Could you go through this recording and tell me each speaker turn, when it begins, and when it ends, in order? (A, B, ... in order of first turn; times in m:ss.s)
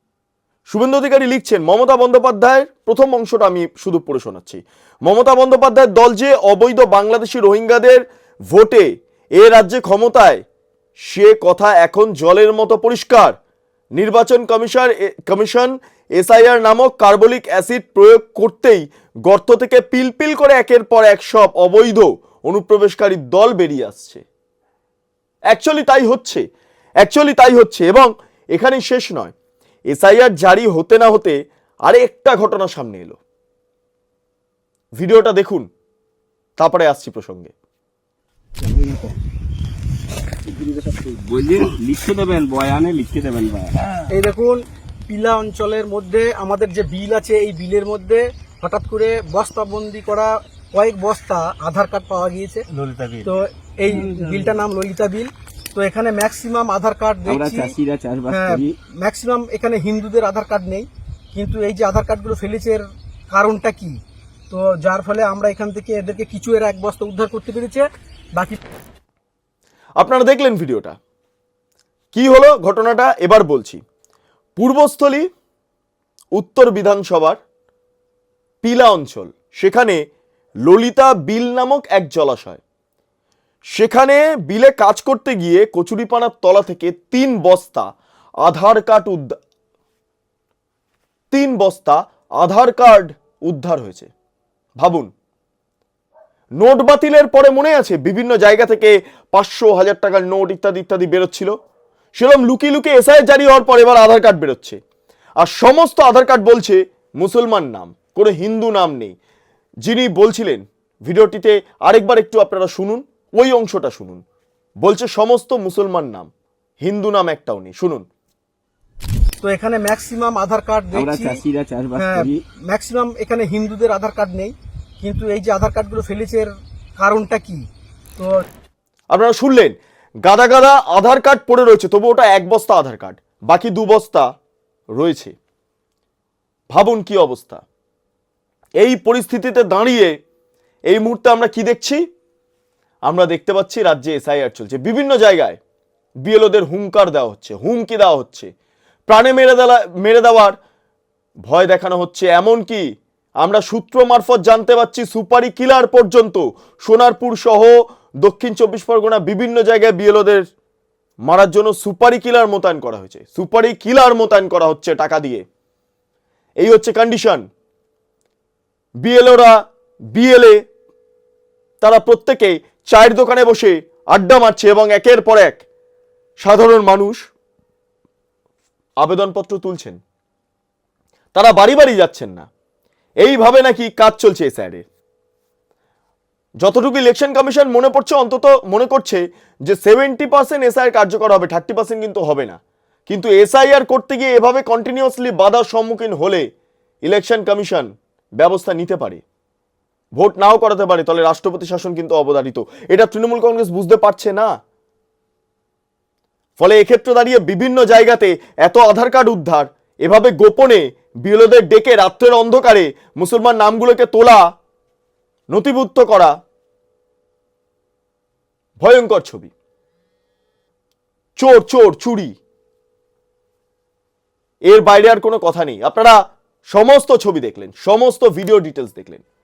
0:00.7-0:10.4 A
0:11.1-0:13.4 A
0:14.0-0:24.2 A
0:25.5-0:26.4 A
0:27.0-0:29.3 A
0:29.9-0:33.2 A
0:35.0-0:35.7 A
0:36.6-0:37.5 A
0:38.7-0:39.0 B
0:40.5-0:43.8 B
0:44.1-0:52.7 C
0:52.7-0:53.3 B
0:53.2-0:57.8 C
0:57.3-0:58.8 B
0:58.3-1:04.0 C
1:04.5-1:08.6 C
1:10.0-1:11.0 A
1:12.1-1:13.8 A
1:14.6-1:15.3 A
1:16.3-1:17.4 A
1:18.6-1:20.0 A
1:20.6-1:22.6 A
1:23.8-1:27.9 A
1:28.4-1:29.4 A
1:31.3-1:34.1 A
1:34.8-1:35.1 A
1:36.6-1:41.5 A
1:42.2-1:44.8 A
1:45.4-1:49.1 A
1:49.8-1:54.2 A
1:54.8-1:56.3 A
1:56.8-1:58.0 A
1:59.4-2:01.4 C
2:00.9-2:02.4 B
2:02.0-2:07.7 C
2:08.2-2:08.4 C
2:09.1-2:14.3 A
2:15.0-2:15.3 A
2:16.7-2:17.6 A
2:18.8-2:20.1 A
2:20.9-2:22.0 A
2:23.1-2:25.6 A
2:26.2-2:28.5 A
2:29.1-2:30.6 A
2:31.4-2:32.8 A
2:33.4-2:40.4 A
2:41.3-2:45.4 A
2:46.6-2:47.4 A
2:49.0-2:49.6 A
2:50.1-2:50.6 A
2:51.8-2:55.6 A
2:56.4-2:57.2 A
2:59.0-3:00.0 A
3:01.3-3:02.5 A
3:03.2-3:04.8 A
3:06.6-3:16.4 A
3:17.0-3:19.2 A
3:20.2-3:24.5 A
3:26.6-3:34.4 A
3:35.5-3:36.3 A
3:38.8-3:39.5 A
3:41.4-3:42.4 A
3:44.7-3:46.2 A
3:46.7-3:49.2 A